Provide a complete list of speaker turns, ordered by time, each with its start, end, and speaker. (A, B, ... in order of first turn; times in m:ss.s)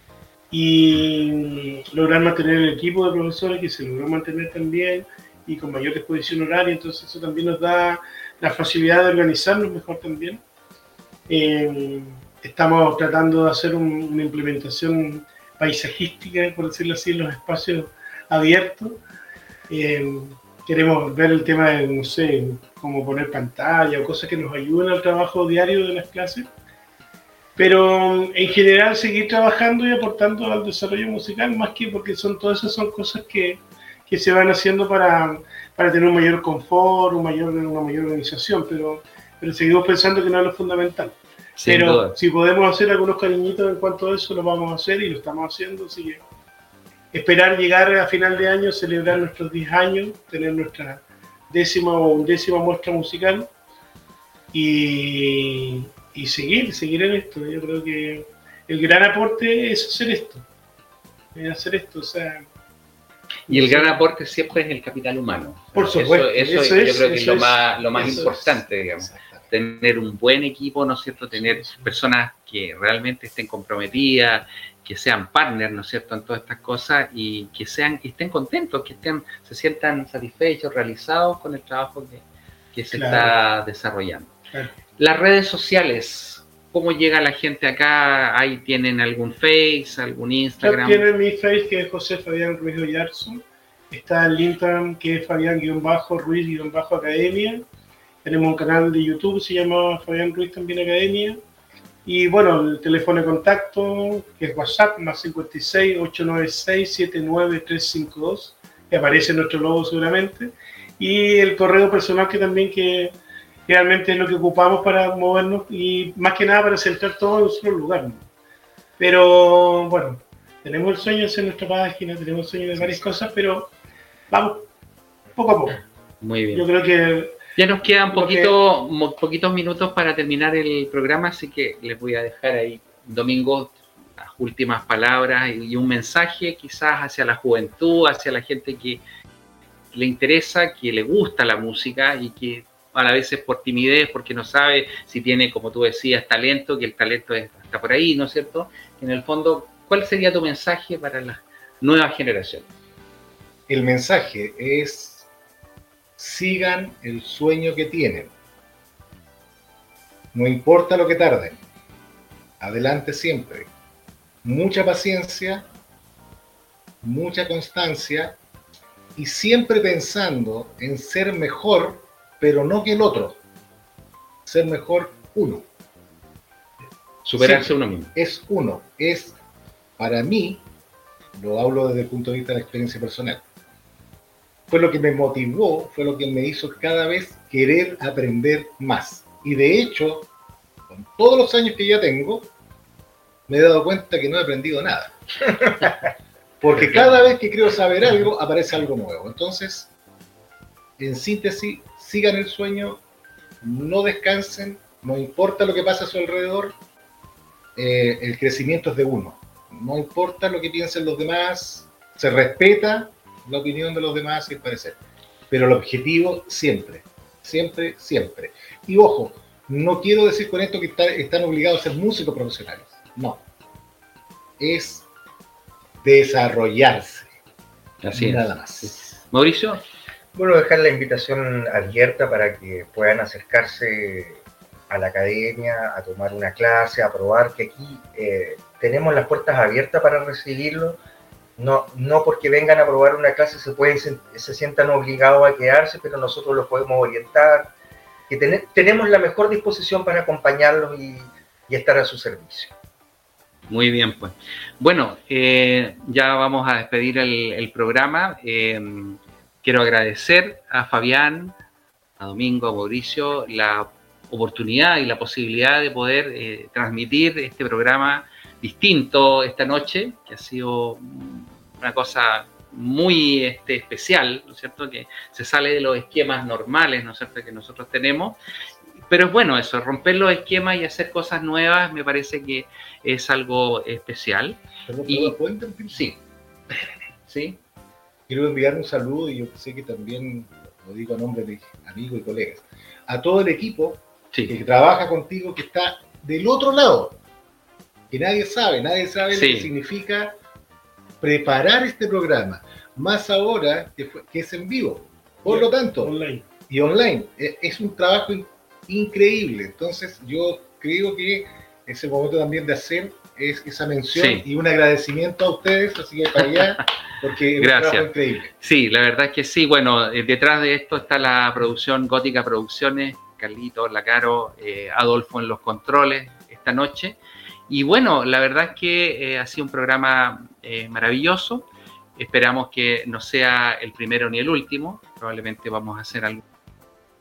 0:00.5-0:10.4 A
0:11.3-0:19.0 A
0:19.7-0:26.5 A
0:27.6-0:46.2 A
0:41.6-0:42.2 B
0:47.1-0:53.5 A
0:54.5-1:00.4 A
1:01.3-1:02.4 A
1:03.5-1:04.0 A
1:03.5-1:24.3 B
1:05.7-1:08.3 A
1:08.0-1:09.5 C
1:11.3-1:12.0 A
1:22.9-1:23.4 A
1:25.0-1:31.0 B
1:30.6-1:37.6 A
1:38.2-1:41.4 A
1:42.0-1:58.2 A
1:59.0-2:03.7 A
2:02.8-2:03.1 C
2:04.3-2:04.6 A
2:05.3-2:05.8 A
2:06.2-2:06.6 B
2:06.5-2:07.4 A
2:07.6-2:19.0 B
2:08.1-2:08.5 A
2:19.9-2:32.7 B
2:33.7-2:35.2 C
2:36.2-2:38.3 C
2:40.3-2:41.6 C
2:42.6-2:43.7 C
2:44.4-2:45.7 C
2:47.0-2:48.4 C
2:49.2-2:53.4 C
2:54.4-2:55.7 C
2:57.2-2:58.1 B
2:57.4-2:59.4 C
3:00.0-3:00.6 C
3:01.3-3:03.4 C
3:04.7-3:10.3 C
3:10.9-3:12.5 C
3:13.5-3:15.2 C
3:16.6-3:19.9 C
3:16.8-3:17.2 B
3:21.0-3:23.0 C
3:23.6-3:26.8 C
3:27.8-3:35.0 C
3:35.5-3:43.4 C
3:44.6-3:45.0 C
3:46.0-3:47.3 C
3:48.0-3:49.8 B
3:48.1-3:49.1 C
3:50.3-4:01.0 D
4:01.6-4:07.7 D
4:08.3-4:12.7 D
4:13.7-4:21.6 B
4:22.2-4:38.4 B
4:39.0-4:45.4 B
4:44.9-4:46.1 C
4:45.9-4:46.2 B
4:47.3-4:47.6 B
4:48.3-4:57.2 C
4:58.1-5:00.4 C
4:59.3-4:59.7 B
5:01.2-5:06.1 C
5:05.4-5:06.4 A
5:06.7-5:18.5 C
5:14.1-5:14.4 B
5:17.6-5:27.2 B
5:27.7-5:36.4 B